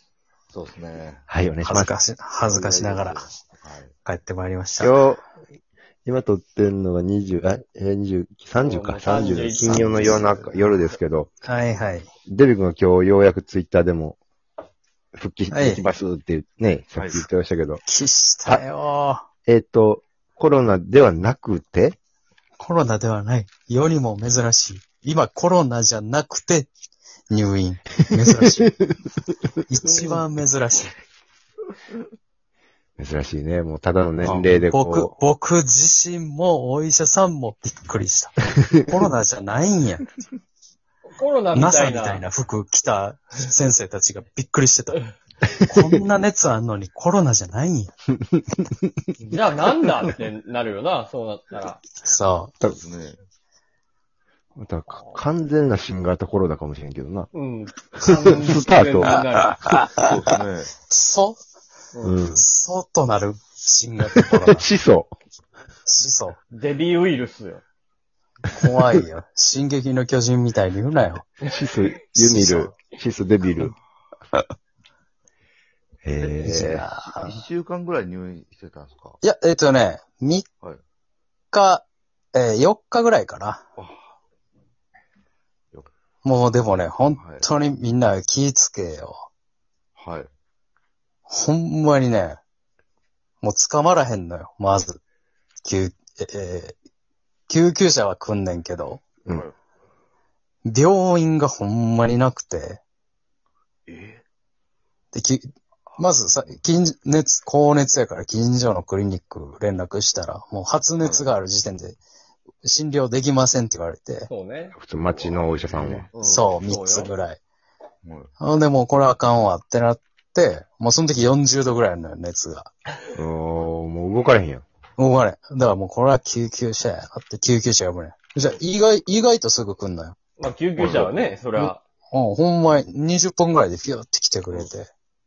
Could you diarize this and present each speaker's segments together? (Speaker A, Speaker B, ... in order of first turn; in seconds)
Speaker A: 0.5-1.2, 2.4-3.9, 17.0-17.3, 52.6-53.2, 60.0-60.7, 76.2-79.2, 83.8-84.2, 87.2-87.5, 90.0-90.3, 99.3-99.5, 103.9-104.2, 105.9-106.6, 111.0-111.3, 115.6-116.1, 118.0-118.3, 130.8-131.2
Speaker B: 1.3-1.9, 4.8-5.2, 6.0-11.3, 12.3-14.2, 15.2-17.8, 19.5-22.0, 33.0-35.1, 48.3-48.9, 54.6-57.3, 58.4-59.2, 62.0-62.4, 64.2-65.1, 71.4-73.7, 76.0-76.9, 114.8-116.1, 123.2-124.6
Speaker C: 1.6-3.3, 4.0-5.0, 9.6-10.2, 11.4-12.1, 15.5-15.8, 17.9-19.3, 22.6-26.7, 27.3-28.7, 29.7-30.9, 34.2-40.1, 41.5-45.0, 45.6-47.9, 52.0-52.5, 60.9-61.4, 62.3-64.7, 65.9-66.4, 68.5-71.3, 72.2-72.8, 76.4-77.4, 79.2-80.5, 81.5-83.6, 86.2-89.3, 91.3-92.4, 93.4-95.0, 95.6-96.8, 97.5-99.0, 100.7-102.8, 105.1-112.0, 112.6-114.3, 116.2-117.4, 118.4-122.7, 125.0-130.2, 131.6-134.9
Speaker D: 8.6-10.4, 41.1-42.2, 49.2-51.8, 57.3-59.7, 61.9-62.2, 66.5-67.6, 114.3-115.2, 116.1-117.1, 130.4-131.8